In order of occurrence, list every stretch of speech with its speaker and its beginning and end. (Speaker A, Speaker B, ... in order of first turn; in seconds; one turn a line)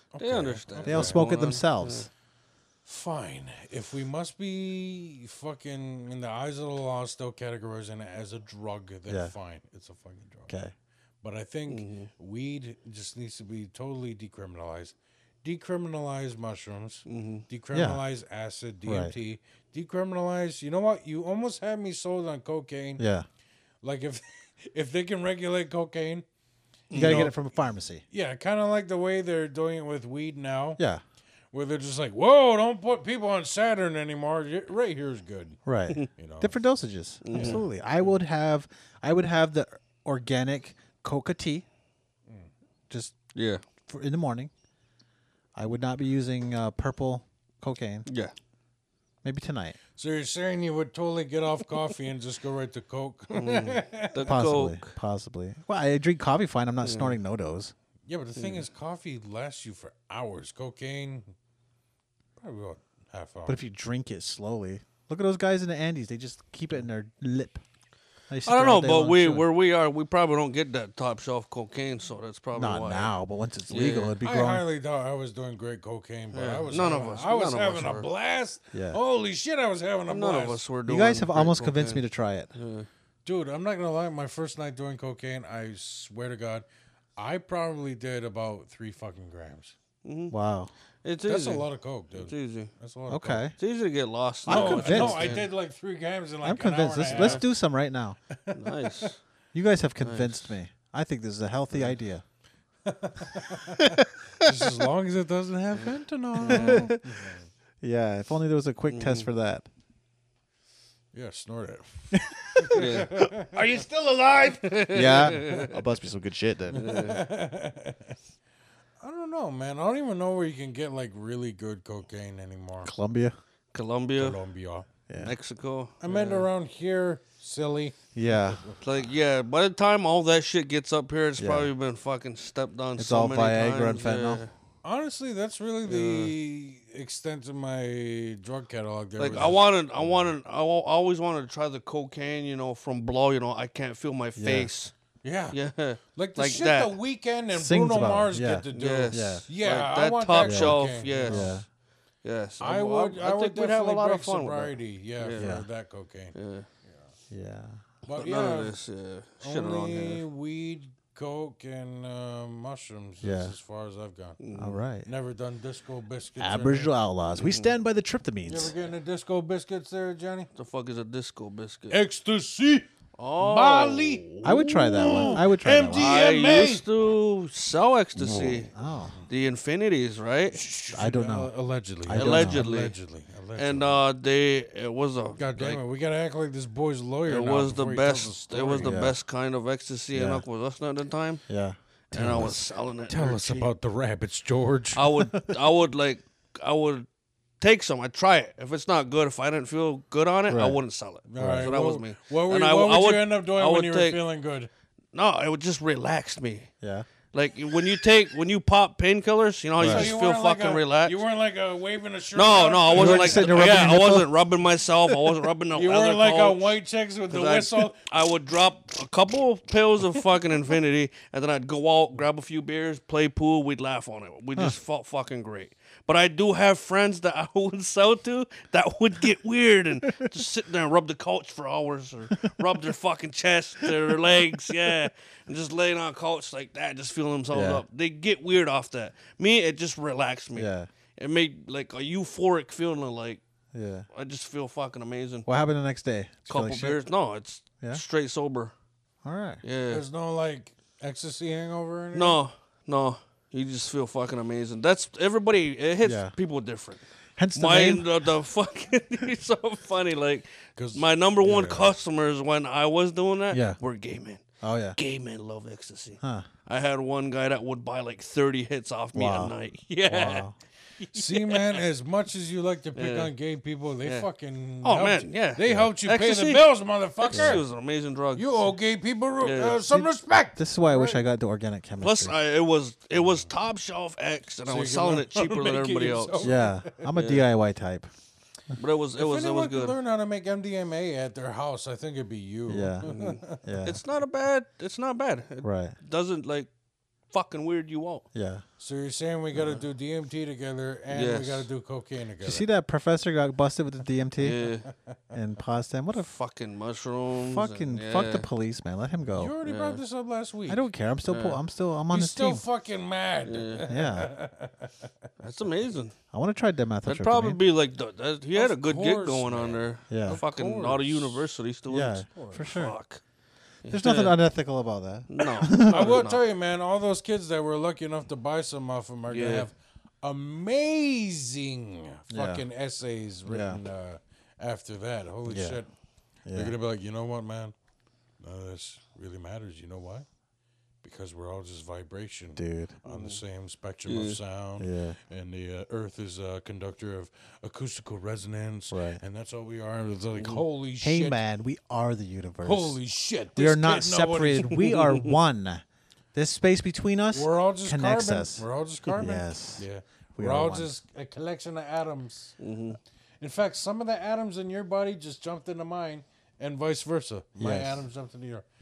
Speaker A: 0.1-1.2
Speaker B: 0.2-2.1
Speaker C: 0.8-2.1
Speaker A: 2.9-10.5
Speaker C: 9.1-9.3
Speaker A: 11.2-23.0
Speaker B: 11.7-12.1
Speaker B: 17.1-17.4
Speaker C: 17.7-18.0
Speaker C: 18.9-19.1
Speaker C: 23.0-23.3
Speaker A: 23.8-26.2
Speaker B: 26.9-27.3
Speaker A: 26.9-27.4
Speaker C: 26.9-28.0
Speaker A: 28.1-30.8
Speaker A: 31.5-35.6
Speaker C: 35.6-41.7
Speaker A: 36.1-36.5
Speaker B: 37.2-37.6
Speaker A: 37.3-38.1
Speaker B: 43.4-43.6
Speaker C: 43.9-44.5
Speaker C: 45.6-48.1
Speaker B: 48.1-48.3
Speaker C: 49.2-49.8
Speaker A: 50.0-54.3
Speaker B: 53.3-54.9
Speaker C: 54.2-57.7
Speaker B: 56.8-57.2
Speaker A: 58.1-61.3
Speaker B: 58.4-58.6
Speaker A: 62.4-63.6
Speaker C: 63.5-67.6
Speaker C: 68.3-69.5
Speaker B: 68.5-73.1
Speaker C: 72.5-74.7
Speaker B: 73.7-74.2
Speaker A: 74.2-80.6
Speaker B: 76.3-78.1
Speaker C: 78.7-79.0
Speaker B: 80.1-82.9
Speaker C: 80.9-82.5
Speaker A: 83.2-86.7
Speaker A: 87.2-89.8
Speaker B: 90.0-90.3
Speaker C: 90.3-90.7
Speaker B: 91.0-92.7
Speaker A: 91.3-93.4
Speaker C: 93.1-93.5
Speaker B: 93.6-95.5
Speaker C: 94.5-95.3
Speaker A: 94.5-97.5
Speaker C: 96.4-98.2
Speaker B: 97.1-97.4
Speaker A: 98.3-99.1
Speaker B: 98.5-99.2
Speaker C: 99.5-102.2
Speaker B: 100.0-100.5
Speaker A: 102.8-107.5
Speaker C: 103.8-104.6
Speaker C: 106.4-107.3
Speaker B: 106.4-106.9
Speaker C: 107.8-109.7
Speaker B: 108.9-109.3
Speaker A: 111.1-115.6
Speaker C: 112.1-113.2
Speaker B: 112.7-113.1
Speaker B: 114.5-115.8
Speaker C: 114.9-116.8
Speaker B: 116.7-117.2
Speaker A: 116.7-118.2
Speaker A: 119.0-122.9
Speaker C: 122.8-123.3
Speaker B: 123.7-124.4
Speaker A: 124.2-124.9
Speaker C: 125.1-125.3
Speaker B: 125.2-126.5
Speaker A: 126.0-129.1
Speaker C: 128.2-128.6
Speaker B: 128.8-134.5
Speaker C: 131.4-131.7
Speaker C: 133.0-134.4
Speaker A: 134.8-140.3
Speaker B: 135.8-136.3
Speaker B: 139.2-144.9
Speaker C: 144.4-144.7
Speaker A: 145.2-145.6
Speaker B: 145.5-146.9
Speaker A: 146.1-151.6
Speaker C: 147.5-149.4
Speaker B: 148.7-151.6
Speaker C: 150.4-151.7
Speaker B: 152.2-155.5
Speaker A: 152.6-156.3
Speaker C: 155.4-155.7
Speaker B: 156.3-156.7
Speaker C: 157.3-157.8
Speaker A: 158.0-158.8
Speaker B: 158.1-160.2
Speaker A: 159.4-164.4
Speaker C: 163.2-163.6
Speaker B: 164.4-164.8
Speaker C: 164.6-165.1
Speaker A: 165.1-166.9
Speaker C: 166.4-168.7
Speaker B: 167.4-167.7
Speaker A: 168.5-170.5
Speaker B: 170.6-172.0
Speaker A: 171.9-172.9
Speaker B: 173.2-175.4
Speaker A: 173.4-174.3
Speaker C: 174.4-176.2
Speaker A: 174.9-176.9
Speaker B: 175.9-178.7
Speaker A: 178.2-179.3
Speaker C: 178.3-179.2
Speaker B: 179.3-180.6
Speaker A: 180.5-184.0
Speaker C: 180.9-181.5
Speaker C: 182.0-182.6
Speaker B: 182.1-183.0
Speaker B: 183.6-185.8
Speaker A: 185.4-189.0
Speaker B: 187.3-191.5
Speaker C: 188.8-189.2
Speaker C: 190.1-190.4
Speaker C: 191.5-192.6
Speaker B: 192.1-193.7
Speaker A: 192.2-195.3
Speaker B: 194.9-197.1
Speaker B: 197.6-204.2
Speaker C: 200.5-200.8
Speaker A: 201.3-204.7
Speaker C: 201.4-201.7
Speaker B: 205.1-206.7
Speaker C: 206.8-207.1
Speaker B: 207.3-211.1
Speaker C: 209.8-210.1
Speaker A: 209.8-213.9
Speaker B: 212.3-216.6
Speaker C: 212.9-214.3
Speaker A: 215.7-218.0
Speaker B: 217.3-243.4
Speaker C: 237.5-237.8
Speaker C: 240.5-240.9
Speaker C: 243.7-244.1
Speaker B: 244.1-245.5
Speaker C: 245.5-247.0
Speaker B: 246.5-248.7
Speaker C: 249.2-249.6
Speaker B: 249.6-250.0
Speaker A: 249.9-252.4
Speaker B: 252.1-257.0
Speaker C: 256.0-256.3
Speaker C: 257.4-258.1
Speaker B: 257.5-264.4
Speaker A: 260.8-261.9
Speaker C: 263.5-263.8
Speaker C: 264.6-265.0
Speaker B: 265.0-270.4
Speaker C: 266.2-266.5
Speaker C: 269.1-269.5
Speaker C: 270.1-270.5
Speaker B: 271.0-271.8
Speaker A: 271.1-277.7
Speaker B: 272.9-273.3
Speaker B: 274.8-276.6
Speaker B: 277.2-278.5
Speaker C: 277.3-277.6
Speaker A: 278.4-281.2
Speaker B: 279.4-279.8
Speaker C: 279.9-282.4
Speaker B: 282.0-286.6
Speaker A: 283.2-283.5
Speaker A: 284.7-287.0
Speaker C: 286.4-288.1
Speaker B: 287.2-287.5
Speaker B: 288.8-289.9
Speaker A: 289.2-293.8
Speaker C: 292.7-294.0
Speaker B: 293.0-296.7
Speaker C: 295.6-295.9
Speaker B: 297.3-298.3
Speaker C: 298.3-298.6
Speaker A: 298.8-302.7
Speaker B: 299.6-299.8
Speaker B: 301.1-301.7
Speaker C: 302.4-304.7
Speaker B: 304.4-304.9
Speaker C: 305.3-306.3
Speaker B: 306.1-308.5
Speaker C: 307.4-309.6
Speaker A: 309.3-310.9
Speaker B: 309.6-310.0
Speaker C: 310.7-312.6
Speaker B: 311.3-311.6
Speaker A: 312.1-315.1
Speaker B: 313.4-313.9
Speaker C: 313.9-314.3
Speaker B: 315.4-316.2
Speaker C: 316.3-317.6
Speaker B: 317.0-323.2
Speaker A: 318.5-321.4
Speaker C: 320.1-320.4
Speaker C: 321.9-322.9
Speaker A: 322.3-322.6
Speaker B: 323.8-324.4
Speaker C: 323.9-326.2
Speaker B: 325.3-326.5
Speaker A: 325.9-335.9
Speaker B: 329.3-329.7
Speaker C: 332.3-332.6
Speaker C: 333.5-333.8
Speaker C: 335.5-335.8
Speaker C: 336.5-336.8
Speaker A: 336.5-337.7
Speaker A: 338.4-340.3
Speaker A: 341.0-351.4
Speaker C: 342.6-343.0
Speaker B: 343.1-343.4
Speaker B: 344.1-344.4
Speaker C: 344.8-345.2
Speaker C: 348.9-349.2
Speaker B: 350.4-350.6
Speaker C: 351.0-353.0
Speaker A: 352.6-355.1
Speaker C: 353.6-359.9
Speaker B: 355.0-355.3
Speaker A: 357.3-362.6
Speaker C: 360.4-360.9
Speaker B: 362.6-363.0
Speaker A: 363.4-368.6
Speaker C: 367.6-368.1